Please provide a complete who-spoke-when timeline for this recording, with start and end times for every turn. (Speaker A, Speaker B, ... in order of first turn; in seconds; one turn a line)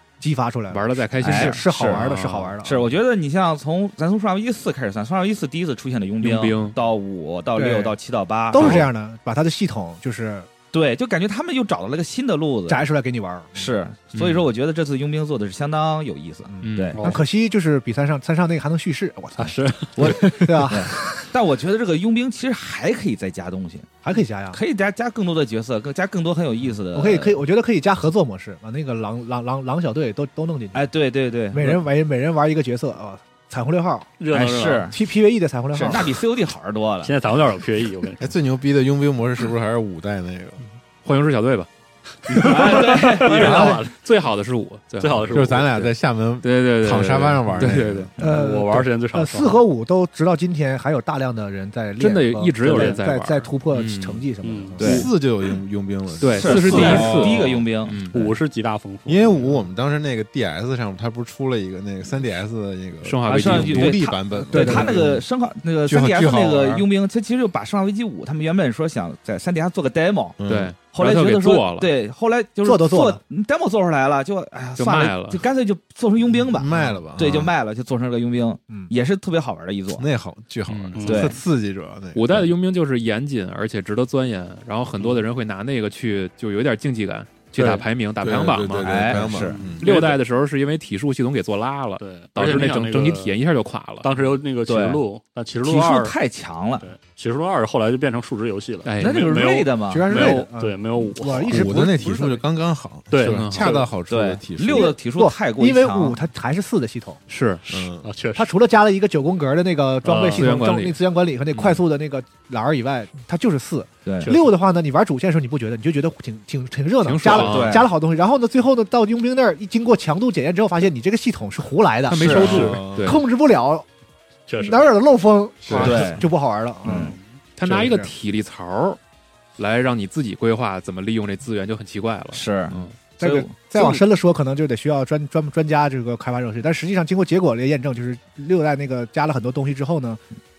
Speaker A: 0.2-2.9
Speaker B: 0.7-2.6
Speaker C: 1.2-2.1
Speaker C: 2.6-8.9
Speaker B: 6.2-6.8
Speaker A: 7.5-8.0
Speaker A: 8.5-10.5
Speaker B: 8.6-8.8
Speaker C: 10.7-12.8
Speaker A: 12.7-13.7
Speaker C: 13.6-17.0
Speaker B: 14.1-14.5
Speaker A: 16.5-21.2
Speaker B: 16.6-17.0
Speaker D: 16.9-17.2
Speaker D: 19.4-21.0
Speaker C: 20.0-23.9
Speaker A: 24.0-24.6
Speaker C: 24.5-27.4
Speaker A: 26.9-30.9
Speaker C: 30.7-31.8
Speaker A: 31.5-34.1
Speaker D: 34.2-34.9
Speaker C: 34.3-35.0
Speaker A: 34.9-36.2
Speaker C: 35.7-37.1
Speaker D: 37.0-38.3
Speaker E: 38.2-40.6
Speaker B: 41.0-41.7
Speaker D: 42.3-44.0
Speaker B: 42.3-45.9
Speaker C: 42.4-43.8
Speaker D: 45.0-45.8
Speaker E: 45.3-48.1
Speaker B: 46.4-48.1
Speaker D: 47.6-49.6
Speaker A: 48.2-55.1
Speaker B: 52.0-54.3
Speaker D: 52.6-53.0
Speaker D: 54.4-55.0
Speaker C: 54.8-55.1
Speaker E: 54.8-57.7
Speaker B: 56.2-58.4
Speaker C: 56.4-58.0
Speaker D: 56.5-57.2
Speaker D: 58.1-59.5
Speaker E: 59.1-65.2
Speaker B: 63.0-64.0
Speaker C: 63.3-80.0
Speaker A: 64.5-65.0
Speaker E: 65.9-66.8
Speaker A: 66.0-66.4
Speaker E: 70.4-70.8
Speaker B: 70.4-71.9
Speaker A: 72.6-73.2
Speaker B: 74.8-75.4
Speaker E: 76.4-77.5
Speaker A: 76.7-77.0
Speaker E: 80.0-82.5
Speaker B: 80.7-81.0
Speaker D: 81.0-81.4
Speaker C: 81.1-81.4
Speaker B: 82.1-89.3
Speaker D: 87.5-87.9
Speaker E: 88.2-89.8
Speaker C: 88.8-89.6
Speaker D: 89.5-90.2
Speaker B: 89.8-94.1
Speaker D: 92.0-93.4
Speaker D: 94.0-96.2
Speaker C: 94.7-95.0
Speaker C: 95.6-96.9
Speaker D: 96.8-101.8
Speaker B: 98.8-99.3
Speaker C: 99.0-100.3
Speaker A: 99.9-102.4
Speaker E: 101.5-105.0
Speaker D: 103.1-103.9
Speaker B: 103.2-103.7
Speaker C: 104.1-106.2
Speaker A: 104.7-107.2
Speaker B: 107.3-107.8
Speaker E: 107.7-108.1
Speaker D: 108.0-108.5
Speaker A: 108.3-123.9
Speaker D: 110.0-110.5
Speaker B: 110.3-111.0
Speaker B: 111.5-111.8
Speaker C: 114.0-114.3
Speaker D: 114.2-114.5
Speaker B: 117.0-117.9
Speaker C: 117.3-117.9
Speaker B: 122.1-123.2
Speaker C: 122.2-122.8
Speaker E: 122.4-123.2
Speaker D: 122.4-122.8
Speaker D: 124.5-124.8
Speaker A: 124.6-128.1
Speaker B: 125.7-126.2
Speaker C: 125.8-126.2
Speaker C: 126.8-127.2
Speaker B: 127.6-129.0
Speaker B: 129.6-133.0
Speaker C: 132.3-134.0
Speaker A: 133.2-140.2